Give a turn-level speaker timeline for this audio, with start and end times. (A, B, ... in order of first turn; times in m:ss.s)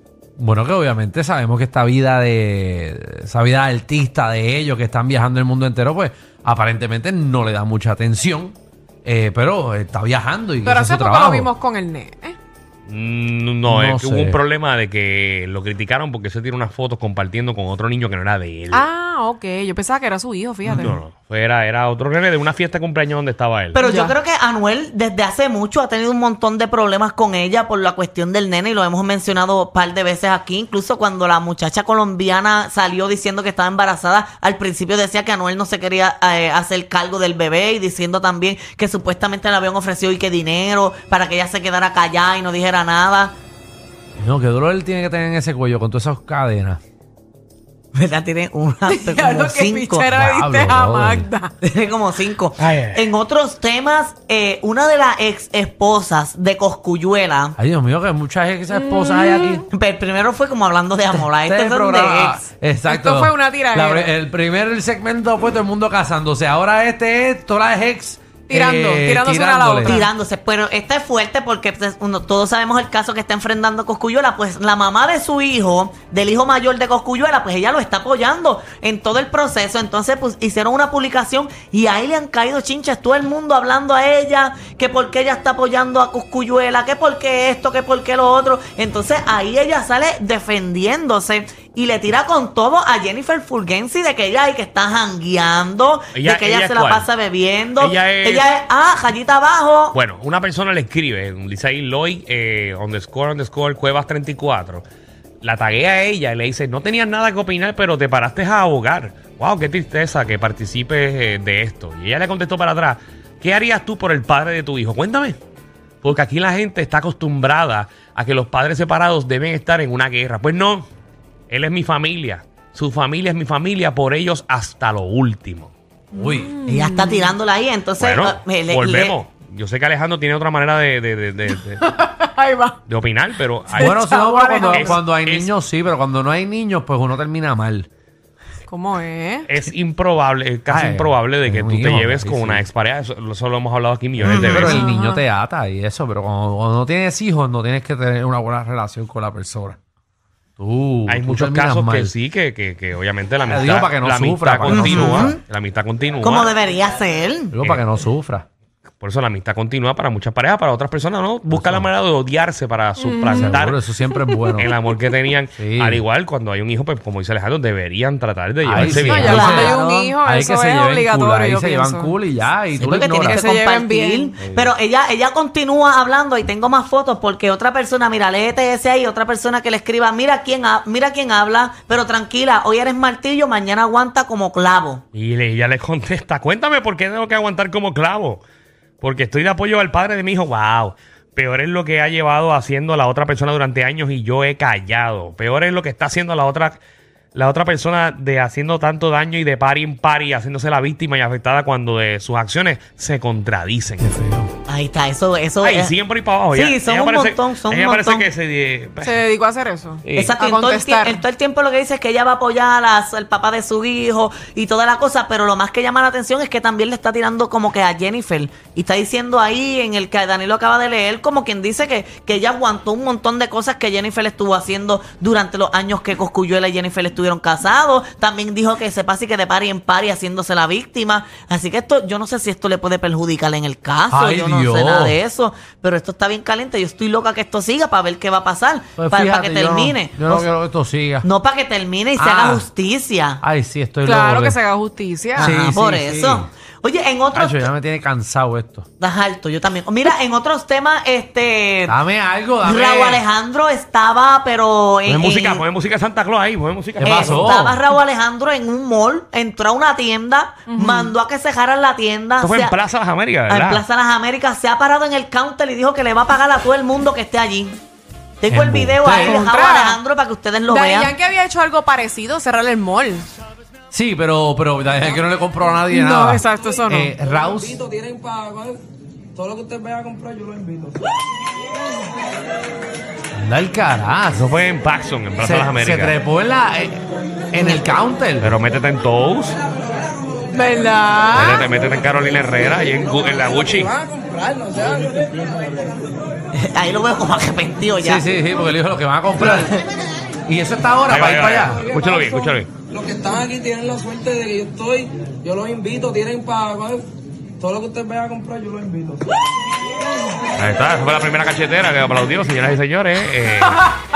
0:00.4-0:11.5 A
0:10.6-0:12.4 B
0:12.9-0:18.8 C
0:13.6-0:14.4 A
0:18.7-0:21.0 B
0:20.7-0:23.8 C
0:23.7-0:43.3 D
0:23.8-0:24.2 B
0:44.2-0:46.8 A
0:47.9-0:50.1 D
0:48.8-0:51.5 B
0:50.1-0:51.3 A
0:51.6-0:57.6 D
0:52.6-0:53.0 C
0:57.6-0:59.6 A
0:58.7-0:59.6 B
0:59.7-1:02.4 D
1:01.3-1:10.0 A
1:02.8-1:04.1 B
1:08.5-1:10.1 B
1:09.8-1:40.0 D
1:36.1-1:37.1 C
1:37.8-1:38.5 C
1:39.9-1:44.8 C
1:45.4-1:55.4 C
1:56.0-2:00.9 C
2:01.5-2:05.7 C
2:06.1-2:06.5 A
2:06.2-2:07.3 B
2:06.7-2:09.2 D
2:08.0-2:11.8 C
2:11.8-2:12.8 B
2:12.9-2:14.0 C
2:13.7-2:15.0 B
2:13.8-2:17.9 A
2:14.7-2:15.5 C
2:18.7-2:19.5 B
2:19.5-2:24.8 C
2:20.7-2:22.7 A
2:24.2-2:29.8 A
2:24.2-2:24.8 D
2:24.7-2:25.2 B
2:30.6-2:32.1 A
2:31.1-2:36.5 C
2:33.4-2:35.4 A
2:34.7-2:35.4 D
2:36.2-2:37.5 D
2:37.5-2:38.4 A
2:39.0-2:43.8 C
2:41.5-2:41.9 A
2:43.0-2:43.6 B
2:43.3-2:44.7 A
2:44.6-2:49.7 C
2:45.6-2:46.0 A
2:48.6-2:53.4 A
2:48.8-2:52.1 B
2:49.1-2:50.2 D
2:52.7-3:05.0 D
2:53.2-2:54.4 B
2:54.4-2:54.7 A
3:05.1-3:08.4 C
3:09.0-3:16.8 C
3:17.3-3:24.1 C
3:24.0-3:24.5 A
3:24.7-3:25.9 D
3:25.6-3:29.2 C
3:26.5-3:28.3 D
3:29.0-3:31.2 B
3:30.0-3:30.4 C
3:30.1-4:00.5 D
3:54.1-3:55.2 A
3:59.0-4:01.3 A
4:01.2-4:03.4 D
4:02.2-4:02.6 A
4:03.4-4:04.6 A
4:04.0-4:05.5 B
4:05.4-4:06.5 A
4:05.4-4:07.6 D
4:07.3-4:08.8 A
4:09.0-4:11.9 D
4:11.9-4:13.2 A
4:12.6-4:15.6 D
4:15.0-4:17.7 C
4:17.0-4:17.8 A
4:17.0-4:22.7 D
4:20.7-4:21.1 B
4:22.4-4:23.8 C
4:23.5-4:27.8 D
4:28.4-4:31.1 D
4:28.5-4:29.5 A
4:29.1-4:30.0 B
4:30.6-4:33.3 B
4:33.9-4:37.8 A
4:35.9-4:37.2 B
4:37.6-4:38.8 E
4:39.4-4:40.9 E
4:43.4-4:44.5 A
4:44.3-4:46.2 C
4:45.4-4:48.6 A
4:48.4-4:49.6 C
4:50.5-4:51.7 B
4:51.3-4:53.9 C
4:54.0-4:55.6 E
4:56.5-4:58.2 D
4:58.0-4:59.8 A
4:59.4-4:59.8 D
5:00.5-5:01.8 A
5:01.1-5:02.7 C
5:01.9-5:02.3 E
5:02.9-5:07.0 E
5:07.6-5:09.2 E
5:10.6-5:13.9 C